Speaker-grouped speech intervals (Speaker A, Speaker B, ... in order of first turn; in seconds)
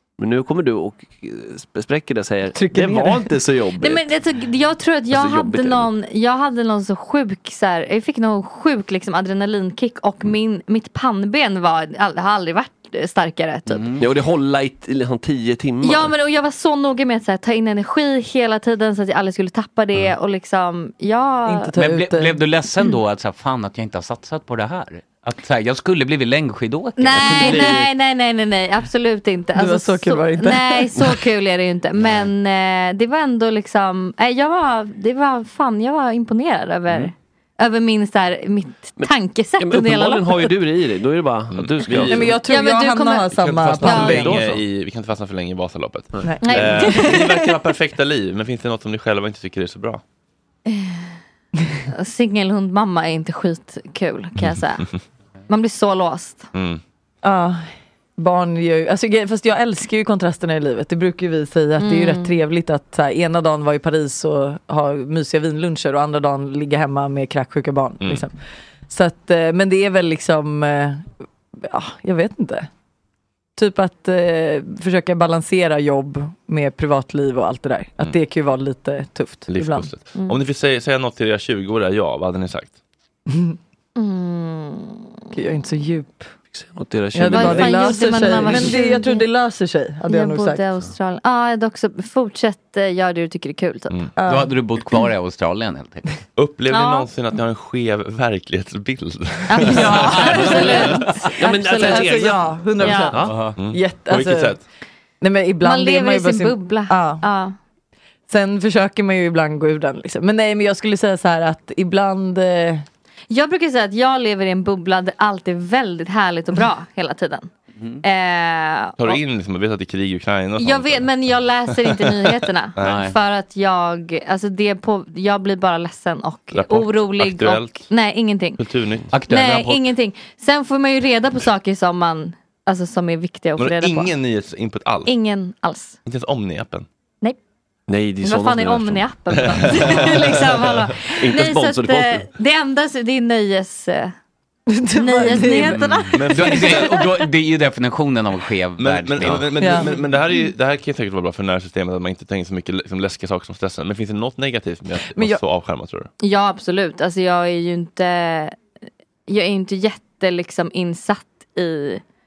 Speaker A: 0.2-4.1, 5.1-5.9, 14.0-16.1, 27.1-27.9, 39.0-42.3, 43.9-44.5, 86.5-87.8, 101.4-102.6, 137.9-139.1, 141.2-142.3
Speaker B: 2.5-3.3, 21.5-22.4, 29.6-30.9, 42.1-44.3, 46.2-47.0, 57.2-68.3, 68.9-72.7, 73.5-79.9, 83.3-83.5, 85.3-86.3, 87.1-90.6, 94.2-94.6, 101.4-104.6, 105.2-107.2, 108.3-112.8, 144.7-146.0, 149.6-149.9, 155.1-155.4
Speaker C: 3.8-13.9, 15.8-21.7, 27.0-40.4, 42.4-44.2, 46.4-47.3, 50.6-51.0, 51.9-54.9, 55.5-56.5, 61.8-62.3, 84.0-85.2, 87.3-89.3, 90.1-94.0, 96.7-97.1, 99.5-102.2, 102.8-103.2, 105.6-107.5, 113.3-117.5, 118.0-119.2, 120.6-128.6, 129.2-134.1, 135.1-136.0, 138.2-144.1, 144.9-146.9, 156.2-158.6, 159.3-162.0
Speaker D: 13.7-14.0, 21.7-27.5, 94.2-96.1, 99.9-101.0, 103.2-103.6, 122.8-123.2, 129.1-129.8, 145.6-149.8
Speaker E: 41.5-42.3, 43.3-50.0, 54.4-54.6, 56.5-56.8, 79.5-82.8, 96.3-100.9, 103.5-104.6, 119.0-123.1, 126.5-127.9, 128.6-129.2, 133.6-135.1, 136.1-136.8, 139.4-140.8, 146.0-147.0, 148.8-156.1